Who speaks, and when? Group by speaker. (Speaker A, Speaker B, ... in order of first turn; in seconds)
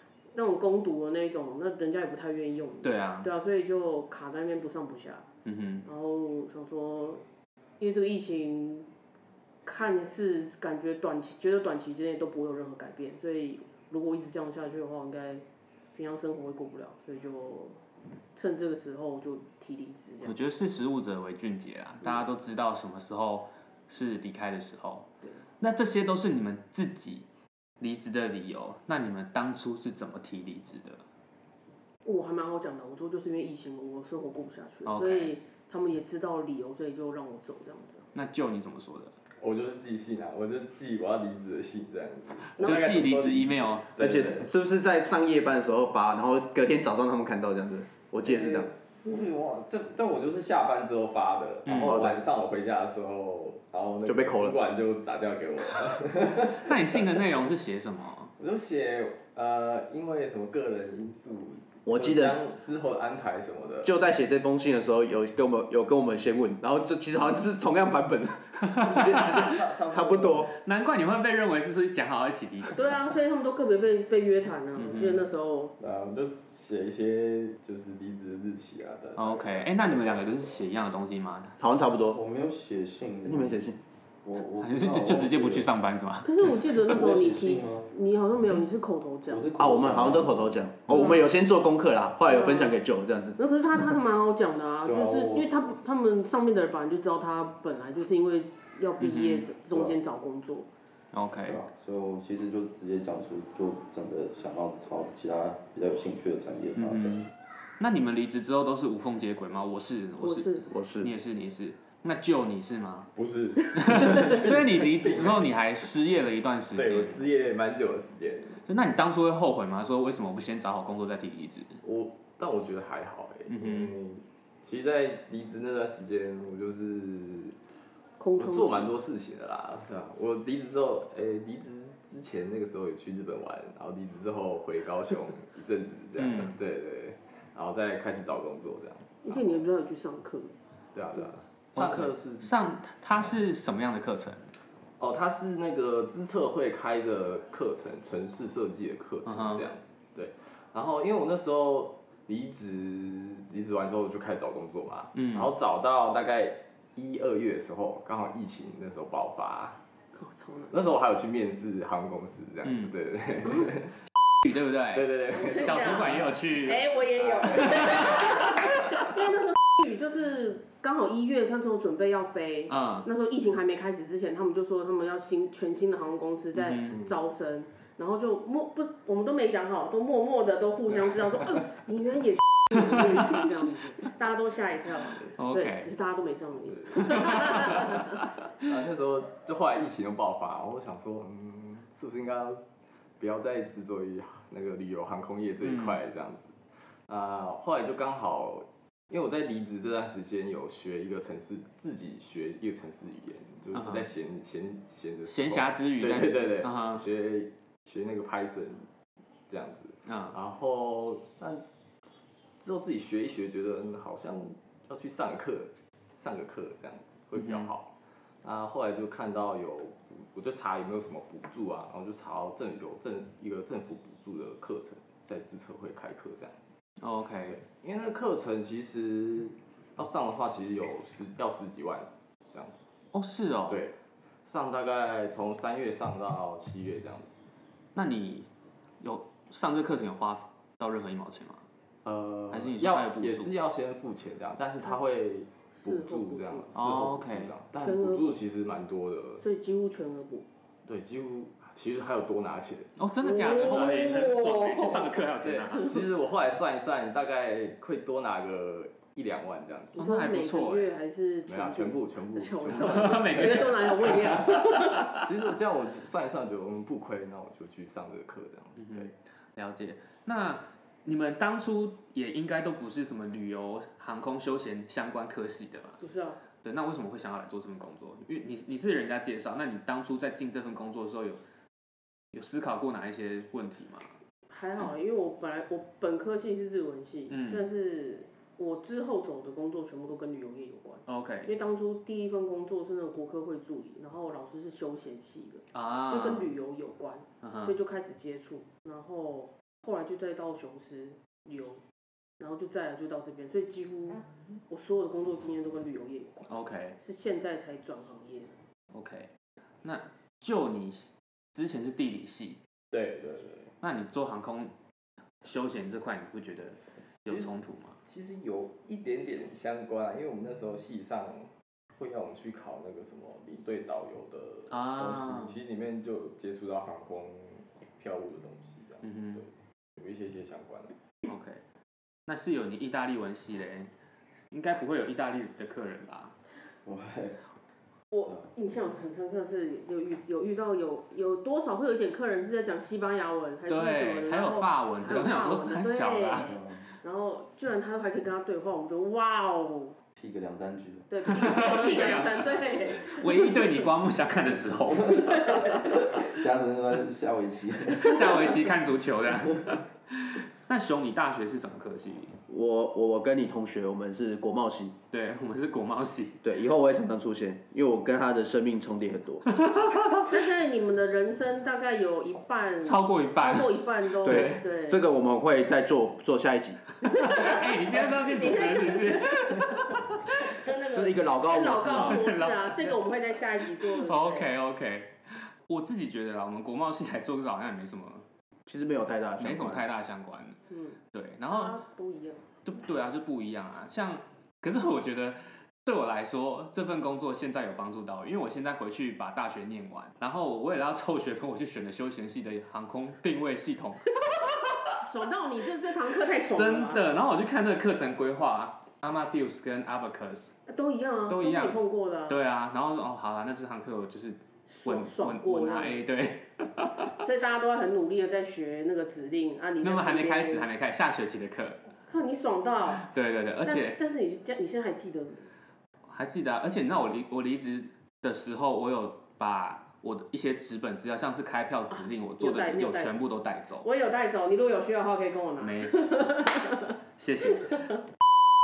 Speaker A: 0.3-5.3, 5.8-7.2, 7.8-8.9, 9.7-17.8, 18.4-20.4, 32.0-38.1, 72.7-75.7, 86.2-89.5, 90.9-91.2, 92.3-92.7, 93.4-100.7, 110.2-110.7, 128.2-128.9, 139.2-140.6, 160.2-160.7, 165.3-188.2, 245.7-246.7, 247.8-248.4, 249.4-250.5, 253.2-256.0, 259.9-265.2, 276.0-276.4, 284.5-301.8, 302.4-308.6, 338.1-350.0, 351.1-353.8, 355.2-355.9, 370.3-375.0, 377.1-384.5, 390.7-392.5, 405.0-407.0, 410.7-412.4, 414.7-416.0, 417.2-420.7, 422.1-423.1, 423.6-425.5, 432.4-433.2, 433.8-437.0, 437.5-438.0
Speaker B: 2.8-3.3, 5.5-5.9, 20.2-25.1, 25.6-27.3, 27.8-31.0, 34.9-35.4, 38.1-39.1, 42.5-43.9, 51.7-52.0, 56.4-58.3, 68.8-69.2, 70.5-73.0, 74.8-75.2, 79.2-81.5, 84.6-86.3, 99.0-99.5, 101.1-101.6, 106.8-113.1, 113.7-117.2, 118.7-121.8, 123.5-123.9, 136.2-136.6, 141.8-144.5, 149.2-149.7, 155.2-155.5, 162.7-162.9, 164.4-166.9, 167.5-169.0, 172.7-173.1, 176.6-177.0, 182.8-183.4, 185.3-185.9, 186.9-188.1, 195.6-196.0, 203.7-204.1, 205.3-207.0, 210.1-210.4, 217.4-217.7, 227.0-227.6, 233.1-233.8, 237.9-238.5, 239.0-241.7, 242.5-243.5, 246.8-247.5, 253.0-255.9, 260.0-260.9, 262.7-264.2, 264.9-265.2, 268.8-276.0, 276.6-281.4, 282.3-284.1, 287.3-287.6, 291.1-291.5, 295.7-296.5, 297.4-297.8, 306.5-307.0, 308.9-309.3, 309.8-312.6, 313.8-314.7, 315.4-318.0, 324.7-325.6, 329.0-329.4, 331.2-331.6, 332.3-333.9, 334.5-336.3, 343.7-346.5, 351.2-355.3, 358.0-362.4, 365.1-366.4, 369.5-370.3, 372.8-374.6, 377.0-380.6, 381.7-383.0, 383.6-388.2, 389.4-390.6, 391.1-391.8, 392.6-404.9, 406.5-410.5, 411.3-417.1, 419.8-421.8, 422.9-424.0, 426.1-433.9, 435.6-436.3, 437.2-437.7
Speaker C: 39.4-44.5, 48.2-57.1, 58.4-63.9, 68.8-70.5, 75.8-80.6, 113.2-115.4, 116.8-118.7, 121.8-127.6, 128.4-139.7, 140.9-142.5, 145.0-159.8, 160.7-164.0, 164.9-166.4, 166.9-168.5, 186.7-192.6, 193.2-208.9, 209.5-211.6, 212.6-217.9, 218.4-226.6, 227.5-232.9, 233.7-237.4, 242.1-249.4, 250.9-254.2, 255.4-260.1, 261.5-269.1, 312.9-313.7, 317.3-330.9
Speaker D: 44.0-48.7, 51.8-52.2, 54.1-54.6, 61.9-62.4, 63.8-70.5, 81.6-82.2, 83.3-83.8, 89.6-93.4, 110.7-111.1, 362.5-364.9, 366.4-369.4, 374.2-376.8, 380.9-382.3, 388.7-389.9
Speaker E: 82.0-83.6, 84.2-85.7, 86.8-87.9, 89.3-90.6, 94.8-95.5, 99.7-100.0, 101.5-107.3, 336.8-337.4, 338.2-338.5, 346.4-346.9, 350.2-351.1, 354.9-358.7